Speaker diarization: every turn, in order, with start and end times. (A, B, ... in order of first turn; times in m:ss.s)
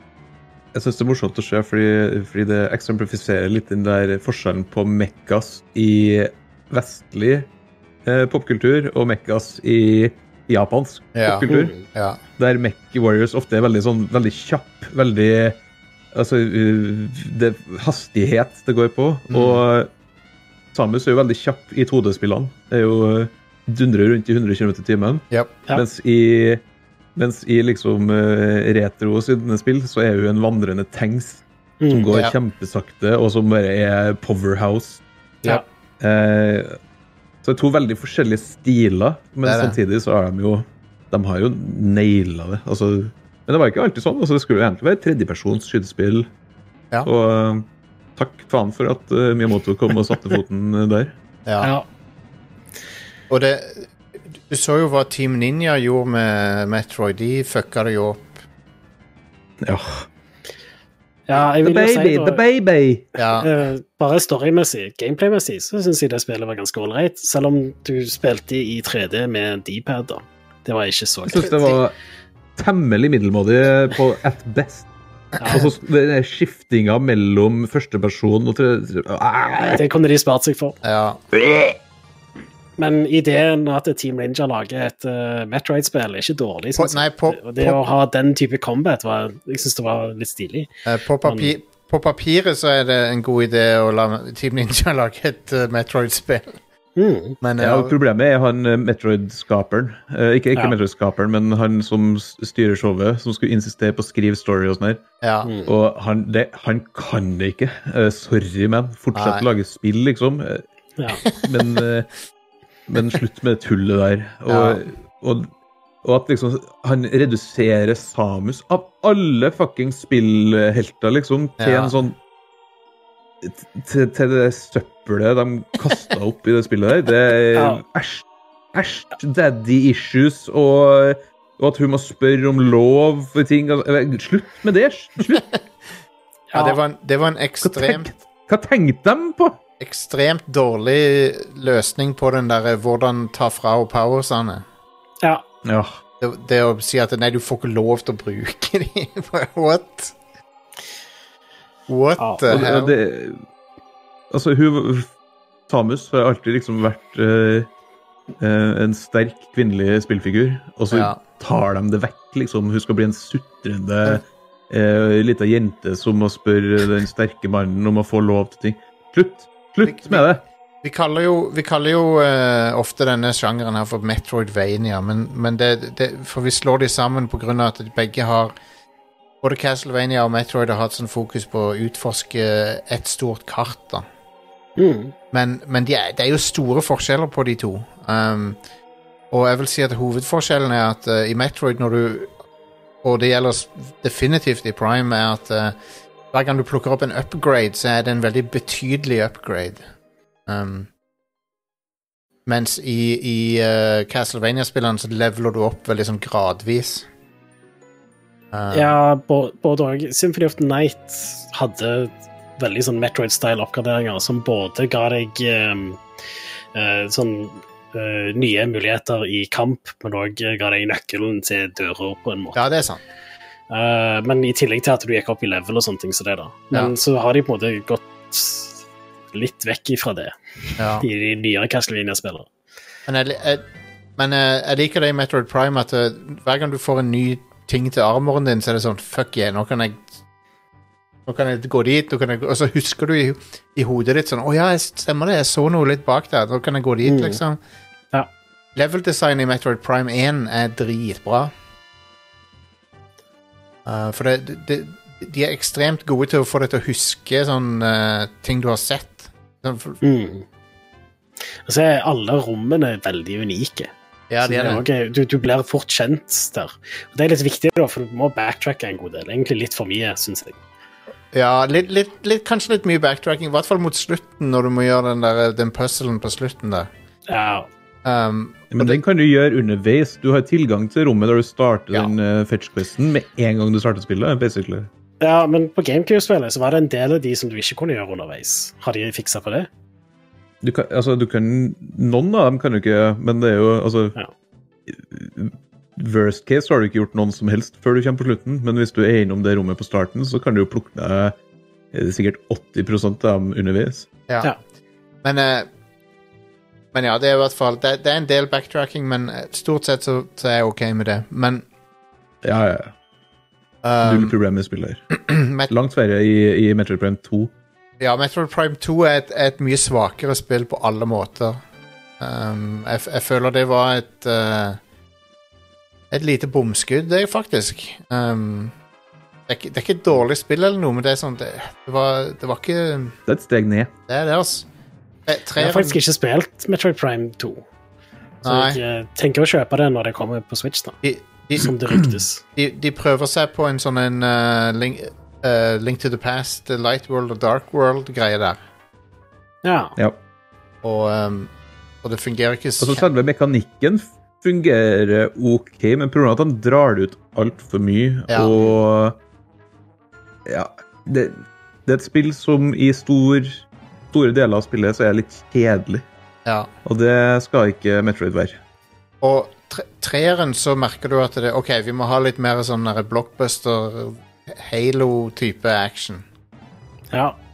0:00.7-0:07.5 A
0:08.0-0:11.8 A
0:11.2-0:12.2 B
0:11.5-0:11.8 C
0:12.4-0:15.6 A
0:16.1-0:19.9 A
0:19.3-0:19.6 B
0:20.7-0:26.6 A
0:25.3-0:25.6 B
0:27.2-0:35.0 A
0:31.8-0:32.1 C
0:36.0-0:36.8 A
0:37.4-0:46.3 A
0:39.4-0:39.8 B
0:47.0-0:51.1 A
0:53.3-0:53.9 B
0:54.5-0:58.3 B
0:59.6-1:00.1 A
1:01.3-1:02.4 C
1:01.6-1:03.0 A
1:03.2-1:03.5 B
1:03.4-1:11.8 C
1:11.2-1:11.9 A
1:12.6-1:14.9 A
1:15.4-1:15.7 C
1:15.4-1:19.8 A
1:19.7-1:20.8 C
1:20.8-1:21.2 B
1:21.3-1:21.7 A
1:22.8-1:30.7 C
1:26.8-1:27.8 B
1:30.8-1:36.6 B
1:31.2-1:31.5 C
1:37.0-1:37.4 C
1:37.4-1:37.9 B
1:37.6-1:45.0 A
1:45.2-1:45.5 B
1:45.4-1:45.7 C
1:45.6-1:50.6 A
1:49.1-1:49.4 B
1:51.4-1:52.1 A
1:52.9-1:55.5 A
1:54.5-1:54.8 B
1:56.0-2:02.2 A
2:01.6-2:02.0 B
2:03.4-2:15.4 A
2:07.5-2:07.8 C
2:16.5-2:16.8 C
2:16.5-2:18.1 B
2:17.6-2:19.6 A
2:19.8-2:24.6 B
2:25.6-2:26.0 A
2:26.2-2:30.1 B
2:31.9-2:32.9 B
2:32.4-2:33.4 A
2:34.3-2:35.1 A
2:35.7-2:37.7 A
2:38.4-2:50.4 A
2:40.9-2:41.2 B
2:49.8-2:50.3 B
2:50.8-2:58.5 B
2:59.4-3:04.0 B
3:04.8-3:05.1 C
3:05.3-3:08.6 B
3:09.3-3:12.3 B
3:13.0-3:15.8 B
3:16.3-3:19.8 B
3:20.5-3:20.9 B
3:22.4-3:27.1 B
3:28.5-3:28.9 B
3:28.7-3:36.0 C
3:36.7-3:42.6 C
3:42.5-3:43.0 B
3:43.7-3:48.8 C
3:49.3-3:52.5 C
3:50.8-3:51.0 B
3:53.1-3:53.6 B
3:54.2-4:00.0 B
4:01.3-4:07.6 B
4:07.0-4:07.4 C
4:08.7-4:11.5 B
4:13.8-4:20.0 B
4:20.0-4:20.4 C
4:21.6-4:23.9 C
4:24.3-4:24.8 B
4:24.4-4:30.6 C
4:31.3-4:36.9 B
4:37.3-4:37.7 C
4:38.0-4:39.0 B
4:38.7-4:44.9 A
4:45.2-4:49.7 C
4:50.6-4:54.2 A
4:54.9-5:01.4 A
5:01.9-5:04.1 A
5:05.2-5:05.7 B
5:06.9-5:11.6 B
5:12.4-5:12.9 A
5:13.8-5:14.3 B
5:14.0-5:15.0 A
5:15.1-5:15.7 B
5:15.6-5:17.5 A
5:18.0-5:21.6 B
5:22.2-5:24.8 B
5:26.1-5:28.7 B
5:29.5-5:33.2 B
5:33.3-5:33.9 A
5:34.1-5:34.7 B
5:35.3-5:36.0 B
5:35.6-5:37.6 C
5:38.4-5:38.8 B
5:38.4-5:41.0 C
5:41.0-5:41.7 B
5:41.6-5:42.4 C
5:42.6-5:48.6 B
5:49.6-5:50.0 C
5:50.8-5:51.5 B
5:52.0-5:53.1 B
5:52.8-5:59.2 A
5:58.3-5:58.7 B
6:00.4-6:06.0 A
6:06.8-6:08.6 A
6:09.2-6:16.2 B
6:17.1-6:17.4 C